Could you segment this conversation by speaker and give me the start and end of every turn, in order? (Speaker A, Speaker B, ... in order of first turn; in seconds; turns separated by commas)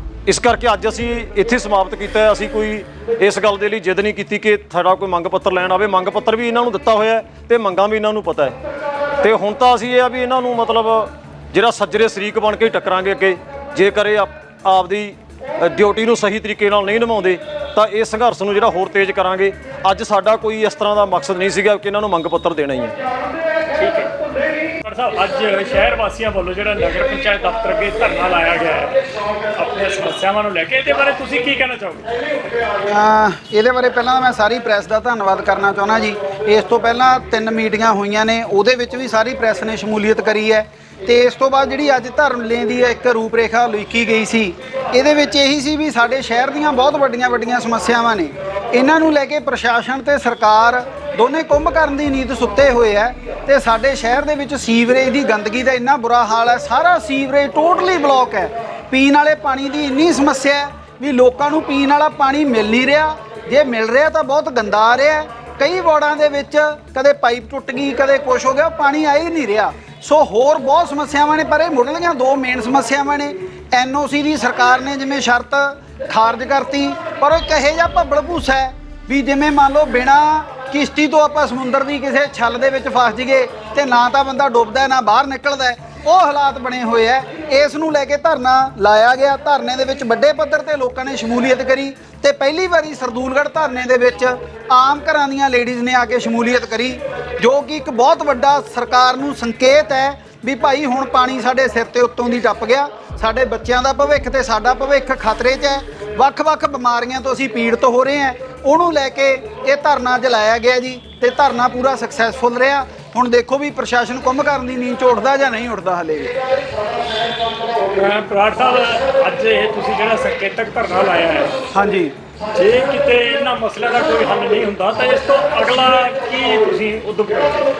Speaker A: 0.3-8.5, Speaker A: 9.2-22.9, Speaker B: 23.7-24.1, Speaker B: 24.8-29.0, Speaker B: 29.6-32.1, Speaker C: 32.9-116.3, Speaker B: 118.0-121.6, Speaker C: 121.7-122.1, Speaker B: 122.5-127.7